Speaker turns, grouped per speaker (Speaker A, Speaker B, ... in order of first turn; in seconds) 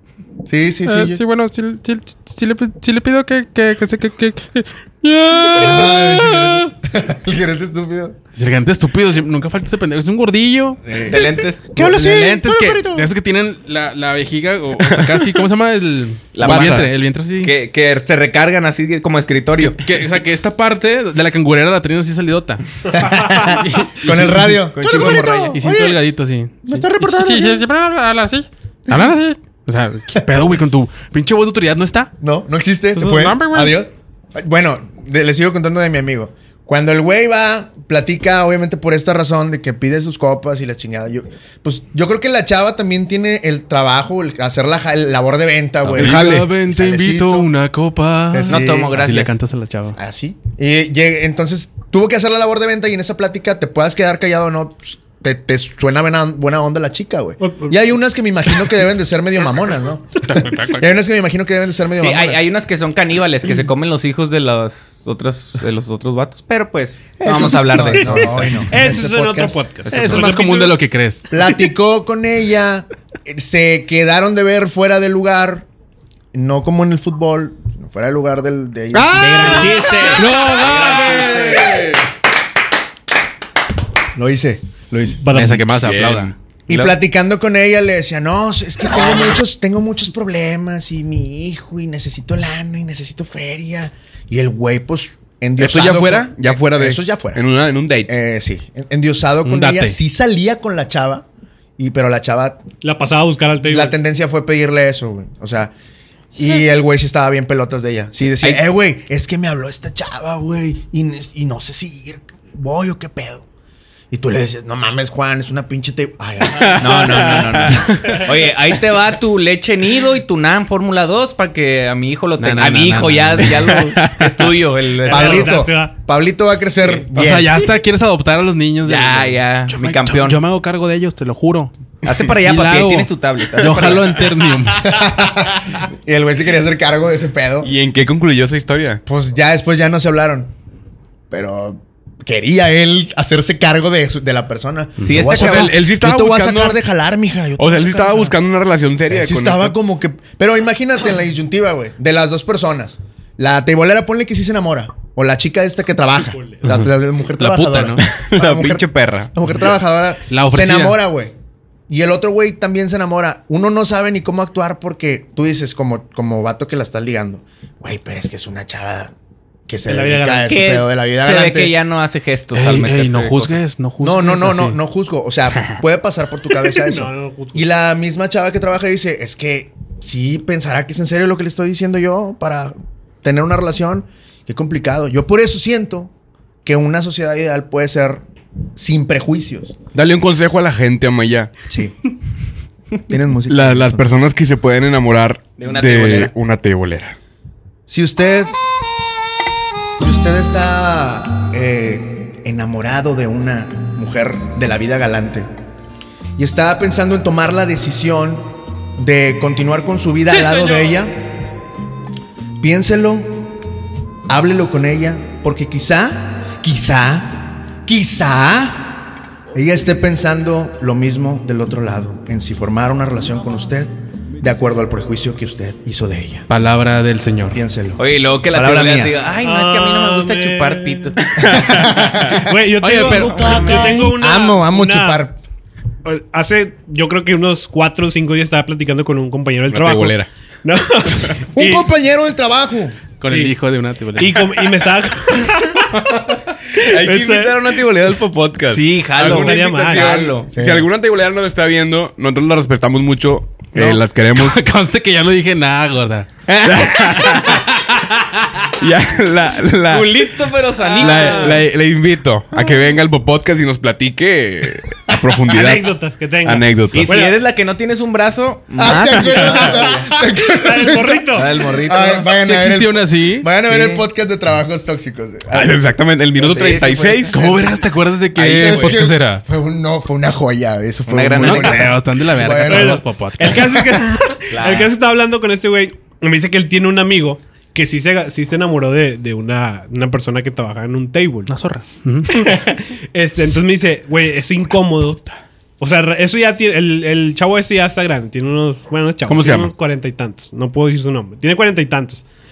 Speaker A: 0.4-1.2, 5.5-8.2, 10.8-13.1, 22.9-26.0, 26.6-27.6, 30.1-30.4, 32.2-47.5, 48.3-49.0, 49.9-62.4, 67.2-70.3, 71.3-75.7, 76.3-80.2, 84.2-85.5, 86.7-97.4, 98.1-101.2, 101.8-102.6, 103.7-105.7, 106.3-113.4, 114.1-117.4, 125.1-127.6, 134.8-137.7, 139.1-140.5, 141.3-148.3, 149.1-161.3, 161.9-169.1, 169.7-171.7, 174.0-186.1, 186.6-188.2, 188.8-189.8, 191.7-191.9, 193.1-194.1, 197.9-198.5, 200.0-205.5, 206.4-211.1, 212.6-213.4, 214.3-218.9, 219.5-226.4, 227.5-229.1, 231.4-232.5, 234.1-235.4, 241.5-243.0, 250.5-250.9, 268.8-275.8, 278.4-283.0
Speaker B: 0.8-6.7, 8.3-10.8, 11.8-17.5, 19.6-22.6, 23.4-32.1, 32.9-33.7, 45.9-50.0, 60.2-60.9, 69.9-71.3, 78.9-82.0, 85.3-86.3, 99.4-100.0, 117.6-118.2, 122.4-124.5, 127.1-135.0, 156.7-158.0, 160.3-161.0, 172.5-174.8, 226.5-227.6, 232.8-234.1, 243.2-244.7, 253.7-258.4, 272.4-273.5, 277.3-279.4, 281.4-283.6, 291.5-292.3, 299.3-299.7
Speaker C: 11.0-11.6, 16.3-19.8, 24.8-25.5, 48.5-49.4, 62.0-68.6, 79.1-81.2, 86.7-87.0, 116.8-125.6, 128.8-130.4, 132.0-134.3, 145.0-145.7, 170.5-173.6, 195.6-196.3, 228.0-231.4, 233.1-233.7, 248.7-250.5, 259.9-261.6, 266.9-270.0, 271.3-272.3, 273.7-274.0, 276.4-277.4, 278.5-278.9, 281.1-281.9, 284.5-284.9
Speaker D: 14.8-15.3, 16.4-16.9, 45.9-46.5, 85.8-86.3, 95.6-98.1, 133.6-133.9, 137.6-139.0, 145.2-146.8, 147.6-149.7, 158.0-159.3, 189.9-191.5, 193.5-197.2, 239.7-240.3, 246.0-254.6, 256.6-257.6, 258.8-260.2, 261.0-265.9, 266.4-267.1, 275.5-277.4
Speaker E: 57.4-57.7, 68.0-70.8, 85.2-86.0, 102.8-104.0, 125.0-125.9, 156.3-156.6, 169.9-170.5, 176.8-177.6, 229.4-235.2, 236.0-241.9, 243.3-243.5, 244.2-246.1, 246.7-247.8, 249.2-250.1, 260.8-261.6, 265.5-267.4, 269.4-271.7, 282.6-291.5, 292.3-295.2, 295.8-302.2